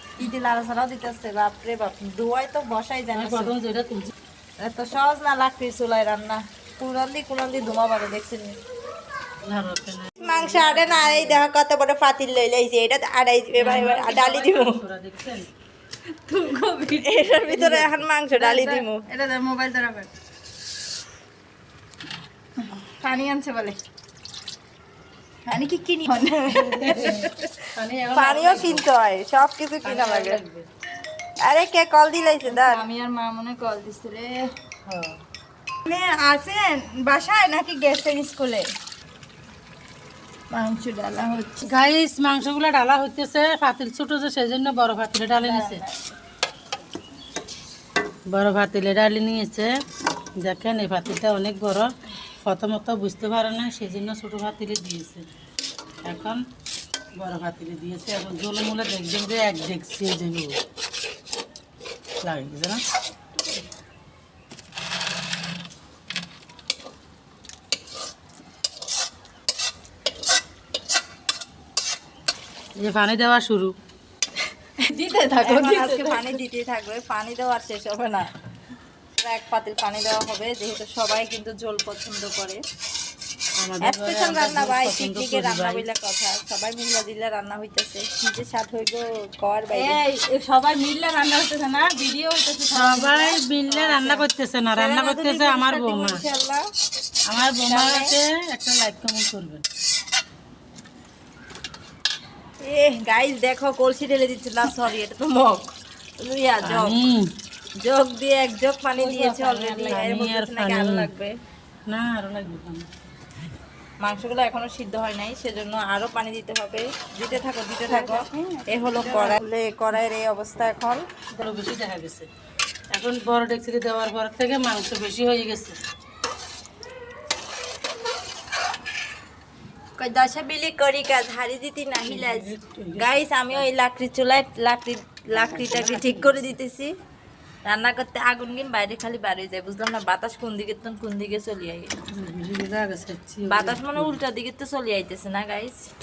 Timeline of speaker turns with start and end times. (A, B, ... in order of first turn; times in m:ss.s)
0:00.2-0:03.5 A
0:03.1-0:04.1 B
0:04.6-0:08.6 A
0:09.4-0:11.4 B
0:10.2-0:14.8 A
0:13.5-0:15.5 B
0:16.2-0:17.8 C
0:17.0-0:19.0 A
0:18.3-0:20.1 C
0:22.6-0:23.8 C
0:25.4-0:27.3 C
0:26.6-0:28.8 B
0:27.3-0:30.4 A
0:29.8-0:30.7 B
0:31.4-0:32.8 A
0:32.4-0:34.4 C
0:34.9-0:35.2 B
0:35.9-0:38.7 C
0:40.5-0:41.7 C
0:41.6-0:45.8 B
0:45.4-0:46.0 C
0:48.3-0:49.7 B
0:50.4-0:55.3 B
0:56.0-0:56.4 B
0:57.2-1:00.6 B
1:02.2-1:02.8 B
1:12.8-1:13.8 B
1:14.8-1:16.4 C
1:15.4-1:18.3 A
1:19.2-1:22.6 A
1:23.6-1:25.8 B
1:23.8-1:30.0 A
1:29.7-1:34.2 C
1:32.7-1:36.2 B
1:34.7-1:36.6 A
1:37.3-1:39.6 B
1:37.6-1:38.1 A
1:42.6-1:47.0 A
1:46.6-1:47.3 B
1:47.8-1:51.3 A
1:49.0-1:51.1 B
1:49.5-1:50.0 C
1:51.9-1:52.9 B
1:54.0-2:01.0 A
1:57.8-1:59.4 C
2:01.3-2:02.3 B
2:02.9-2:05.8 B
2:10.0-2:16.9 A
2:12.0-2:13.7 B
2:15.3-2:16.6 B
2:17.6-2:21.9 A
2:22.1-2:24.2 B
2:23.5-2:25.8 A